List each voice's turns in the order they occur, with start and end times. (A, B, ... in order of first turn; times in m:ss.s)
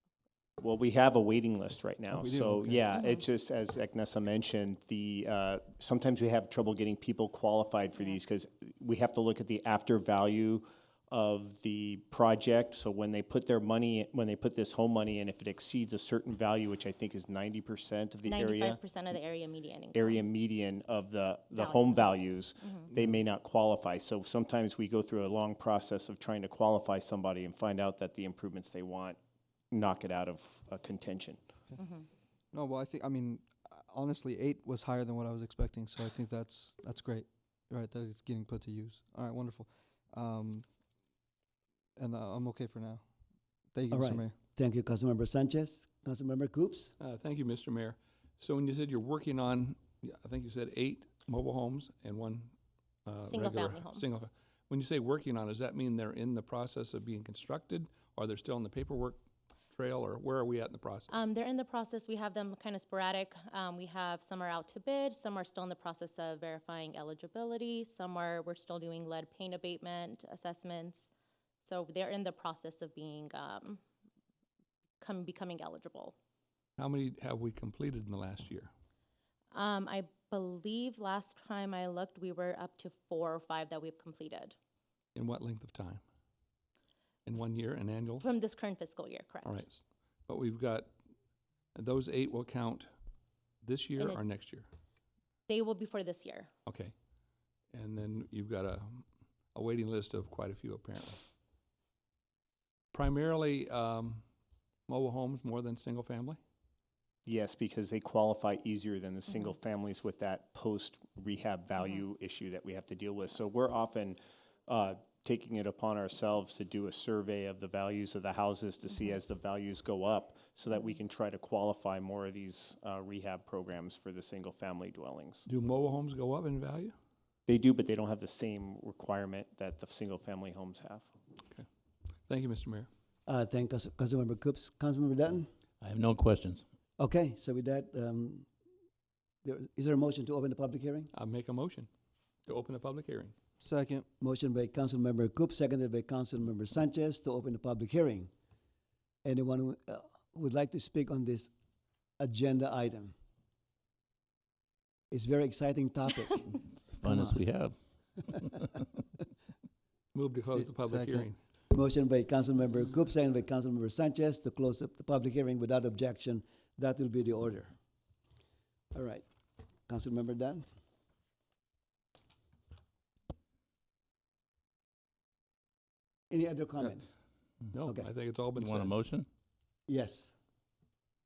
0:00.6-0:18.8 A
0:02.1-0:02.9 B
0:02.9-0:03.2 C
0:18.2-0:20.2 C
0:19.9-0:29.2 A
0:21.5-0:22.9 C
0:29.7-0:31.4 A
0:31.8-0:32.1 C
0:32.5-0:40.6 B
0:42.0-0:43.0 B
0:43.7-0:44.3 B
0:43.9-0:46.9 D
0:47.0-0:52.5 E
0:53.0-0:59.2 E
0:53.2-0:54.0 C
0:59.7-1:01.3 E
1:01.1-1:11.1 C
1:11.6-1:13.8 C
1:15.0-1:16.1 C
1:16.8-1:18.7 E
1:19.5-1:24.5 C
1:25.1-1:26.0 E
1:27.2-1:28.3 E
1:28.2-1:29.6 C
1:29.4-1:30.9 E
1:31.7-1:32.9 E
1:33.6-1:34.7 E
1:35.5-1:36.5 C
1:36.6-1:36.9 E
1:37.7-1:41.2 E
1:42.9-1:44.2 E
1:44.9-1:46.4 E
1:47.2-2:05.4 A
2:05.4-2:06.9 E
2:07.5-2:11.1 A
2:12.3-2:12.9 E
2:13.3-2:15.5 D
2:15.8-2:16.6 F
2:17.0-2:18.5 D
2:19.4-2:21.1 D
2:21.1-2:21.9 E
2:22.5-2:23.3 E
2:23.6-2:24.0 B
2:24.2-2:28.3 D
2:29.2-2:31.5 D
2:32.2-2:33.1 D
2:35.1-2:37.4 D
2:36.9-2:38.8 F
2:40.1-2:41.4 E
2:40.4-2:41.3 B
2:41.7-2:47.7 D
2:48.9-2:49.2 D
2:49.9-2:50.6 D
2:56.3-2:57.1 D
2:57.7-2:59.0 E
2:58.5-2:59.3 F
2:59.9-3:00.3 D